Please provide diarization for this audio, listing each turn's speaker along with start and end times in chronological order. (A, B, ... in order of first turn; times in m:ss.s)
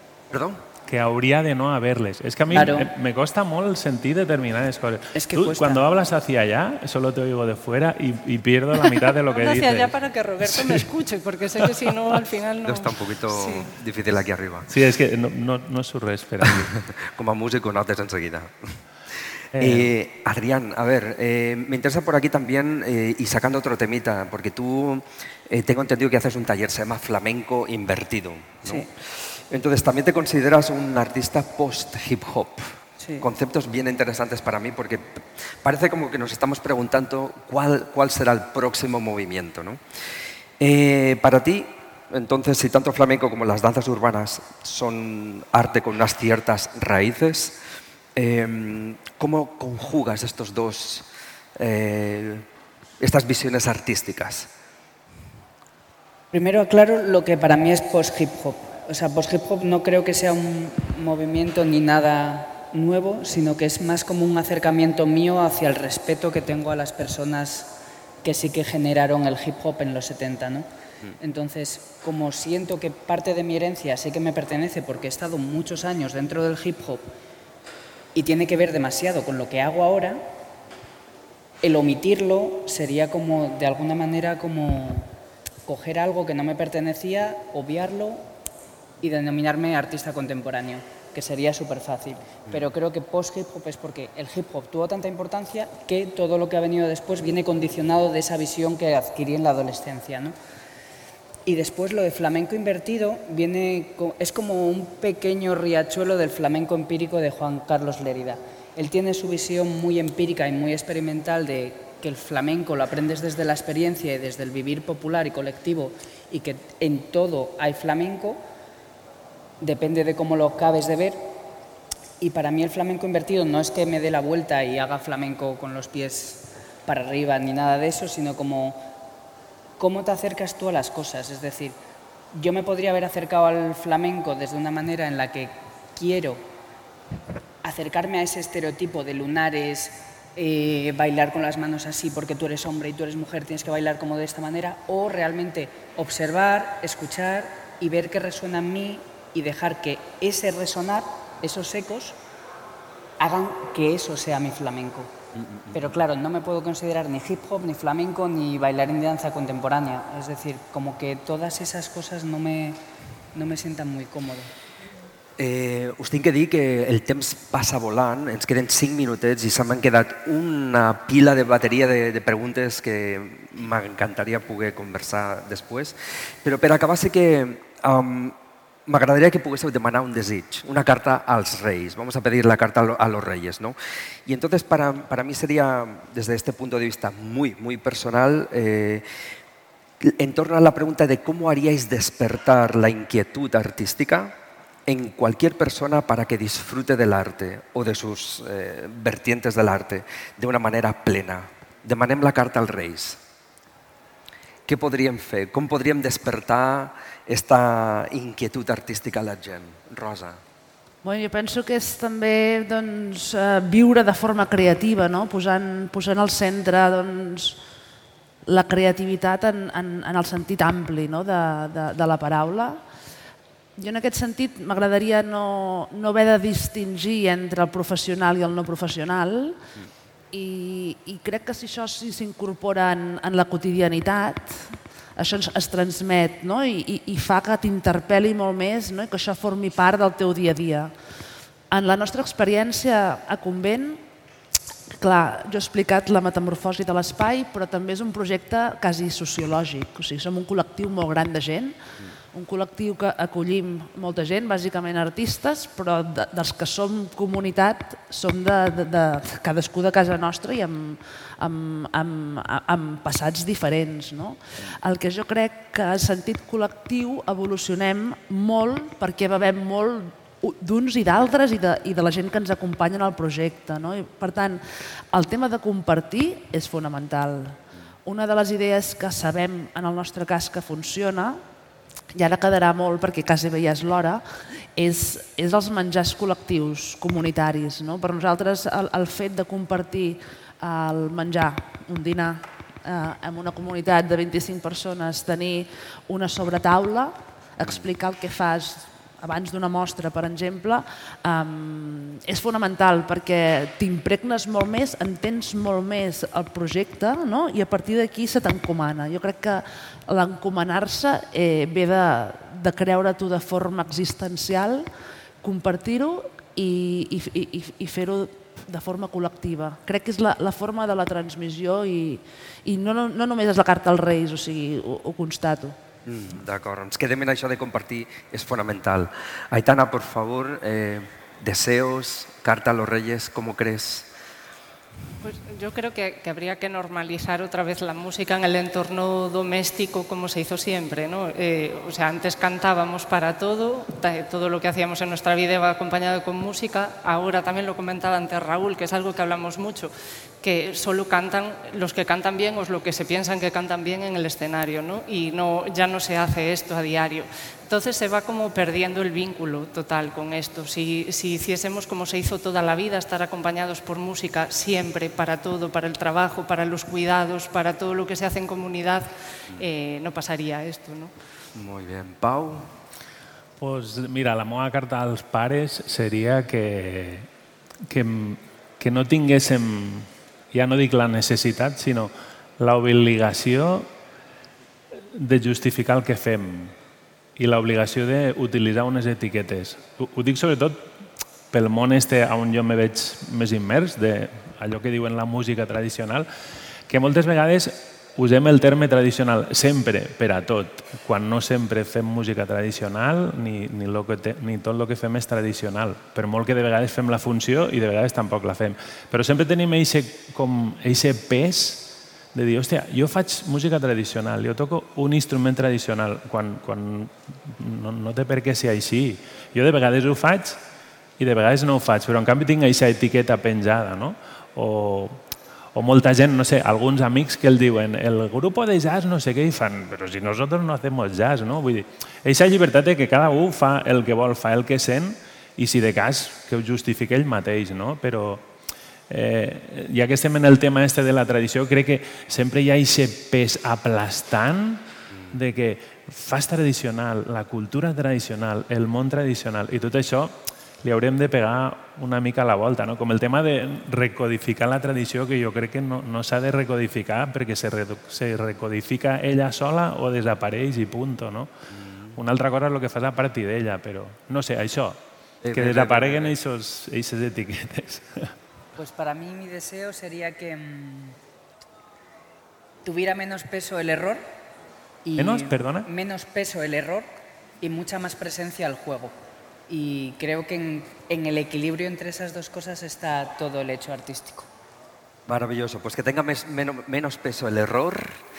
0:00.3-0:00.6 A
0:00.9-0:10.9 B
0:02.5-0:02.9 C
0:05.1-0:05.8 C
0:08.8-0:13.7 D
0:12.6-0:14.7 A
0:14.7-0:16.8 B
0:16.5-0:18.8 A
0:19.6-0:19.9 B
0:19.6-0:28.9 A
0:29.4-0:32.7 A
0:33.0-0:33.3 C
0:33.2-0:39.8 A
0:40.6-0:47.6 A
0:48.2-0:51.1 A
0:51.6-0:52.5 A
0:53.0-0:54.5 A
0:56.3-1:10.7 C
1:11.2-1:17.1 C
1:18.2-1:20.2 C
1:21.6-1:25.1 C
1:25.7-1:28.3 C
1:29.0-1:40.4 C
1:41.5-1:58.4 C
1:59.6-2:01.3 C
2:02.2-2:08.9 C
2:09.8-2:11.8 C
2:12.3-2:16.5 C
2:17.6-2:32.2 C
2:33.2-2:35.2 C
2:35.5-2:35.8 A
2:35.7-2:42.8 C
2:43.3-2:44.5 C
2:45.4-3:09.0 A
3:10.0-3:14.4 A
3:14.9-3:23.2 A
3:24.7-3:30.4 A
3:31.0-3:37.6 E
3:38.5-3:42.8 E
3:43.8-3:49.6 E
3:50.3-4:00.9 E
4:01.7-4:04.0 E
4:05.0-4:11.8 E
4:12.3-4:41.4 E
4:42.2-4:44.2 E
4:44.8-5:14.9 E
5:15.4-5:25.8 E
5:26.1-5:34.1 A
5:35.2-5:49.9 D
5:50.4-6:11.1 D
6:11.6-6:12.7 A
6:13.6-6:17.3 B
6:17.9-6:23.9 B
6:25.1-6:26.7 B
6:27.4-6:30.9 B
6:31.5-6:36.3 B
6:36.9-7:00.6 B
7:01.2-7:05.2 B
7:05.7-7:18.5 B
7:19.1-7:41.5 B
7:25.1-7:25.4 A
7:41.7-7:42.2 A
7:42.2-7:45.0 B
7:45.4-7:46.3 A
7:45.5-7:48.3 B
7:48.8-7:51.2 C
7:52.8-7:54.2 C
7:55.0-7:59.2 C
7:55.2-7:55.9 B
7:59.7-8:04.5 C
8:05.3-8:08.2 A